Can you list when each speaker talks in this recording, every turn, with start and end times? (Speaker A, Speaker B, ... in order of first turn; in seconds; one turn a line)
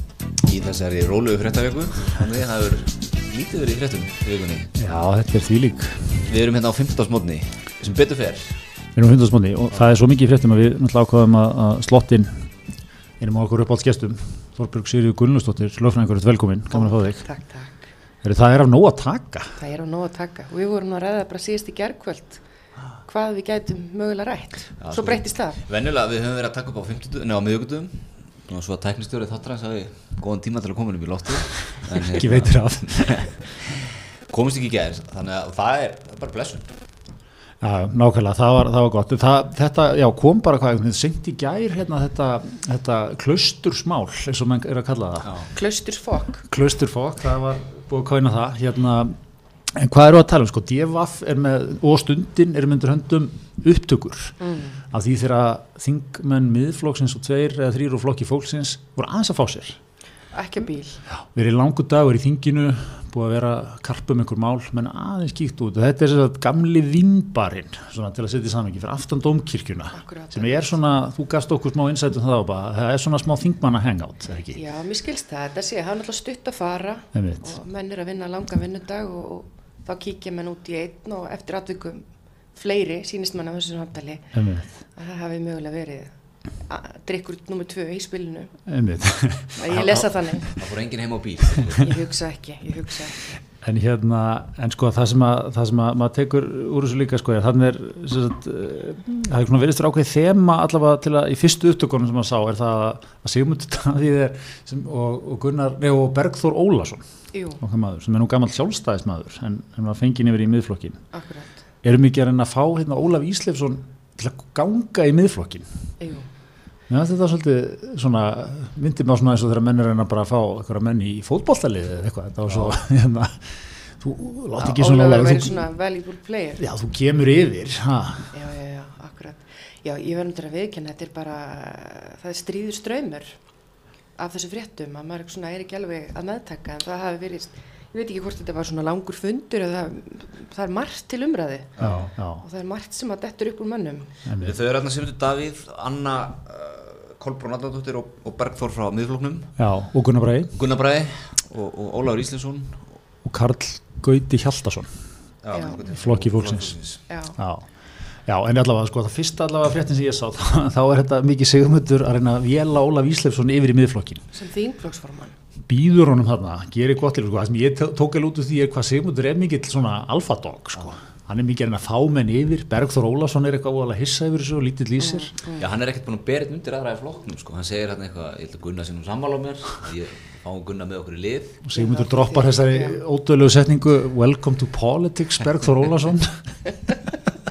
Speaker A: 0.4-4.8
Speaker B: 4.8-6.2
Speaker A: 6.2-8.6
Speaker B: 8.9-12.4
Speaker B: 13.2-17.2
Speaker C: 16.7-17.9
Speaker B: 18.2-19.6
Speaker C: 19.6-22.4
Speaker C: 23.1-25.6
Speaker A: 24.8-36.7
Speaker B: 32.1-33.3
Speaker B: 37.6-45.3
Speaker A: 45.2-45.5
Speaker C: 45.5-46.5
Speaker B: 46.5-49.1
Speaker B: 49.7-54.4
Speaker C: 54.4-54.8
Speaker B: 54.9-59.8
Speaker C: 60.3-61.0
Speaker B: 61.1-74.6
Speaker C: 69.9-70.8
Speaker C: 74.5-84.3
Speaker B: 77.1-77.5
Speaker B: 84.3-84.7
Speaker C: 85.0-86.1
Speaker C: 86.6-88.5
Speaker B: 88.7-90.0
Speaker C: 89.6-90.6
Speaker A: 89.7-91.9
Speaker C: 91.8-93.2
Speaker B: 93.6-107.0
Speaker C: 107.3-107.6
Speaker B: 107.6-111.0
Speaker C: 111.1-111.6
Speaker B: 111.8-115.7
Speaker C: 116.0-116.3
Speaker B: 116.9-125.7
Speaker A: 122.5-122.8
Speaker C: 124.6-126.6
Speaker B: 126.6-128.3
Speaker C: 128.3-133.4
Speaker C: 134.2-141.8
Speaker A: 141.8-142.1
Speaker B: 141.8-142.4
Speaker C: 142.4-144.1
Speaker B: 144.2-144.6
Speaker A: 144.4-149.6
Speaker B: 149.6-150.5
Speaker A: 150.5-152.9
Speaker B: 153.2-154.9
Speaker A: 155.4-157.0
Speaker C: 155.5-155.8
Speaker B: 155.9-156.8
Speaker C: 157.1-157.4
Speaker B: 157.4-157.7
Speaker B: 158.3-164.2
Speaker C: 164.3-165.3
Speaker B: 165.7-175.4
Speaker C: 175.0-175.7
Speaker A: 175.6-181.6
Speaker B: 181.6-186.4
Speaker C: 181.7-183.0